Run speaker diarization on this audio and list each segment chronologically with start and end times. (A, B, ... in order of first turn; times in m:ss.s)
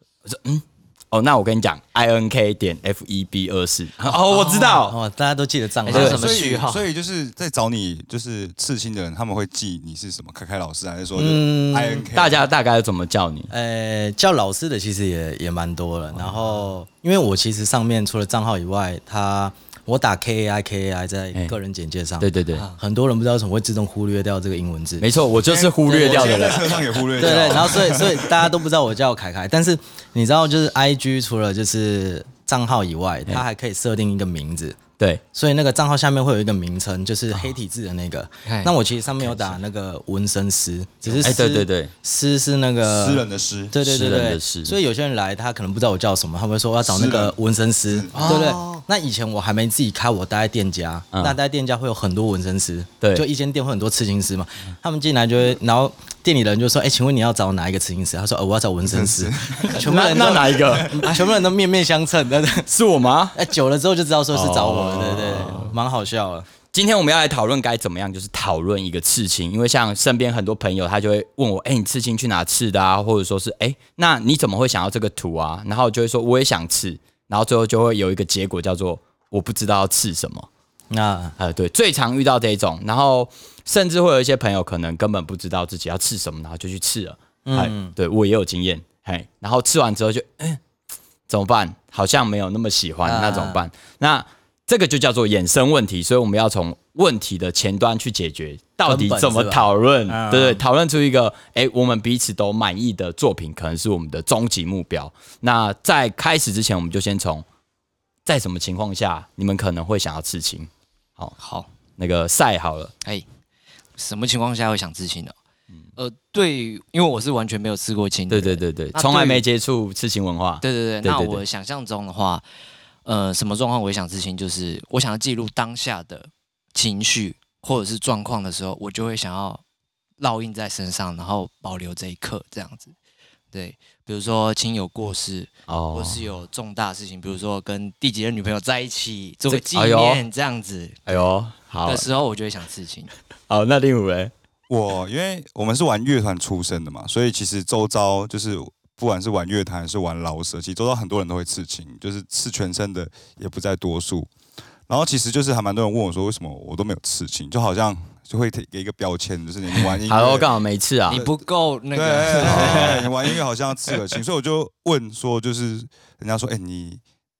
0:00.2-0:05.0 A
0:04.1-0:06.6 B
0:05.9-0:06.8 C
0:05.9-0:06.2 A
0:06.0-0:12.4 D
0:11.2-0:12.1 B
0:12.1-0:13.5 A
0:13.5-0:25.1 B
0:22.2-0:22.7 A
0:25.0-0:26.8 A
0:25.4-0:28.6 D
0:25.9-0:26.6 B
0:27.2-0:34.8 B
0:35.3-1:02.7 B
0:38.5-0:39.6 C
0:41.2-0:41.9 A
0:42.8-0:43.7 D
0:43.8-0:44.8 A
0:46.8-0:47.4 D
0:47.9-0:48.4 D
0:48.1-0:48.8 C
0:58.9-1:01.2 D
0:59.6-1:01.1 A
1:02.7-1:03.4 A
1:03.4-1:06.5 B
1:04.3-1:05.7 A
1:06.7-1:20.5 A
1:20.9-1:21.4 B
1:21.4-1:30.6 A
1:27.4-1:28.0 B
1:31.3-1:47.4 A
1:33.0-1:33.6 B
1:38.9-1:40.6 B
1:48.2-1:51.4 A
1:51.4-1:51.7 C
1:52.0-1:52.9 A
1:54.0-1:55.4 C
1:56.0-1:59.4 C
1:58.3-2:01.4 A
2:00.6-2:02.4 C
2:03.0-2:09.6 C
2:10.2-2:12.9 C
2:13.5-2:21.3 C
2:15.7-2:16.2 A
2:19.5-2:20.2 A
2:21.1-2:22.0 A
2:21.9-2:23.1 C
2:23.5-2:24.3 A
2:24.7-2:34.3 D
2:34.9-2:40.5 D
2:40.1-2:41.2 A
2:41.1-2:43.2 C
2:41.9-2:47.0 D
2:42.4-2:43.0 A